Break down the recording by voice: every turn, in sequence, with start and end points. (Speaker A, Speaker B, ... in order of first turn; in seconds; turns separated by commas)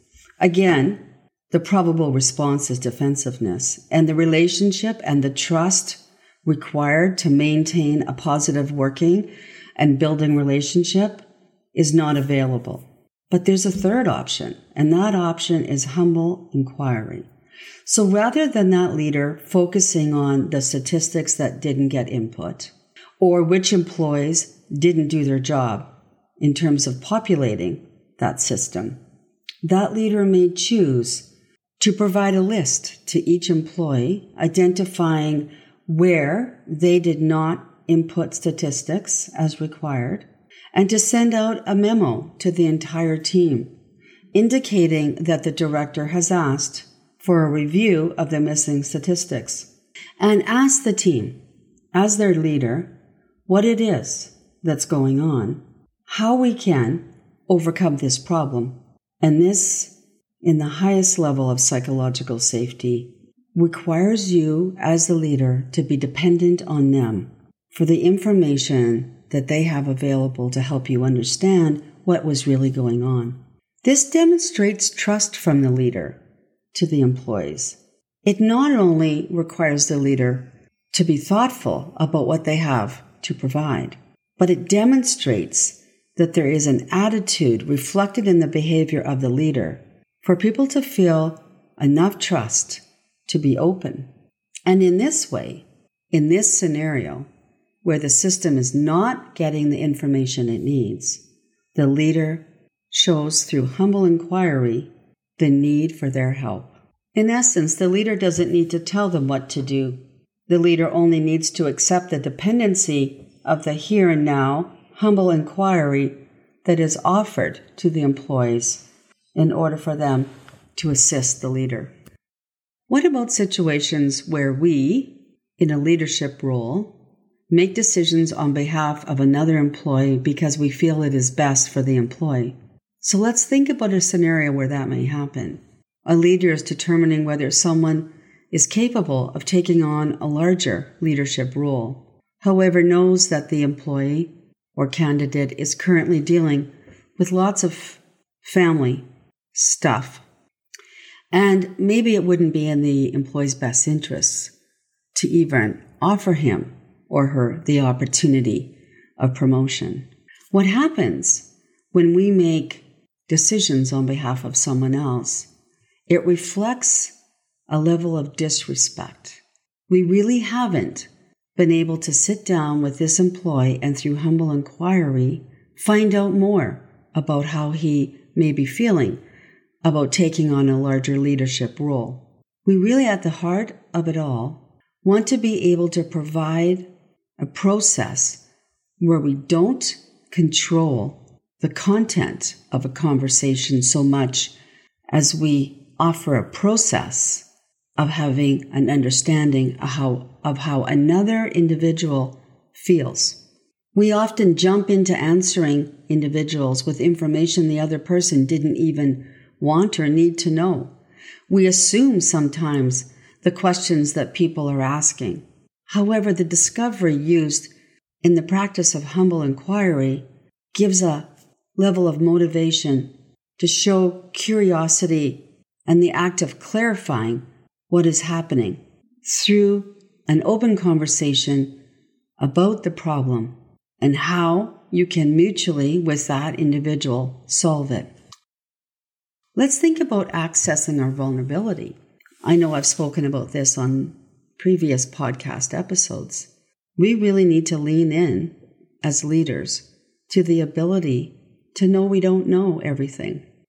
Speaker A: 0.4-17.3, Speaker A: 17.9-25.9, Speaker A: 26.4-29.0, Speaker A: 29.6-31.3, Speaker A: 31.8-43.7, Speaker A: 44.3-51.4, Speaker A: 51.9-52.9, Speaker A: 53.5-76.2, Speaker A: 76.7-94.1, Speaker A: 94.7-97.3, Speaker A: 97.8-101.2, Speaker A: 101.8-118.8, Speaker A: 119.3-121.9, Speaker A: 122.9-127.0, Speaker A: 127.5-150.2, Speaker A: 151.3-154.5, Speaker A: 155.1-165.5, Speaker A: 166.1-167.2, Speaker A: 167.7-179.2, Speaker A: 179.8-188.4, Speaker A: 189.0-194.6, Speaker A: 195.1-197.5, Speaker A: 198.0-203.4, Speaker A: 203.9-210.9, Speaker A: 211.5-231.8, Speaker A: 232.4-238.1, Speaker A: 239.6-253.4